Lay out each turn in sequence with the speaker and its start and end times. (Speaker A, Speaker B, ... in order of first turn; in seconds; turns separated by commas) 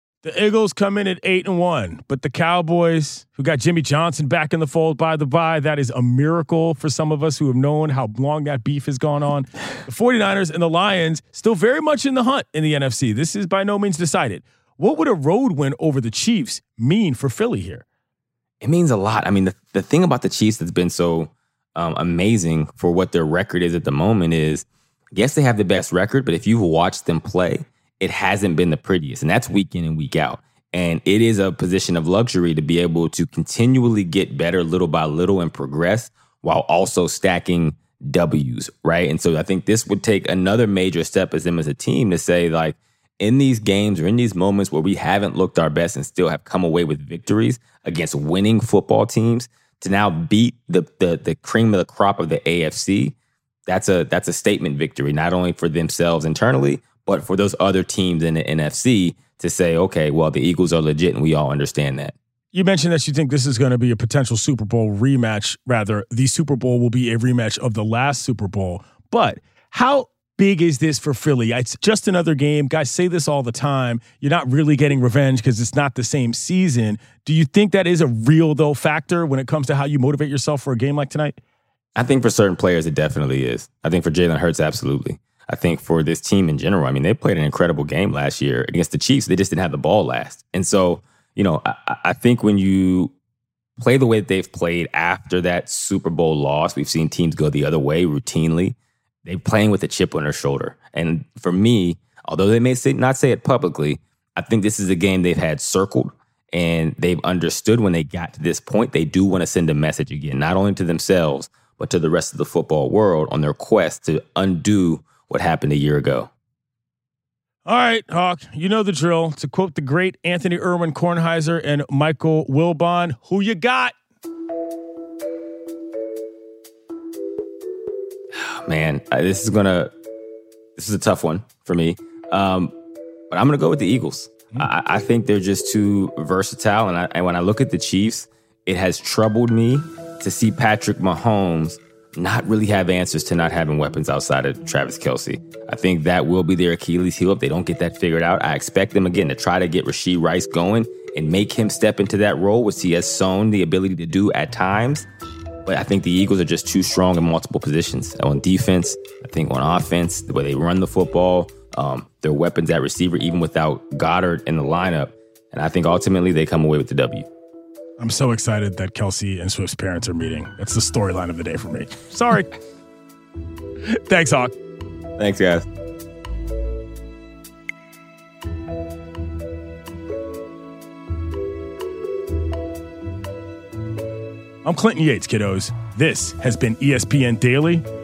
Speaker A: 0.2-17.9, Speaker B: 18.6-53.2, Speaker B: 53.7-62.1, Speaker A: 62.5-81.4, Speaker B: 82.0-93.1, Speaker B: 93.8-116.3, Speaker A: 117.7-124.0, Speaker B: 128.4-129.9, Speaker B: 130.8-132.7, Speaker B: 133.3-155.1, Speaker B: 155.7-167.3, Speaker A: 168.0-172.5, Speaker A: 173.9-174.5, Speaker B: 175.2-175.7, Speaker A: 184.6-187.8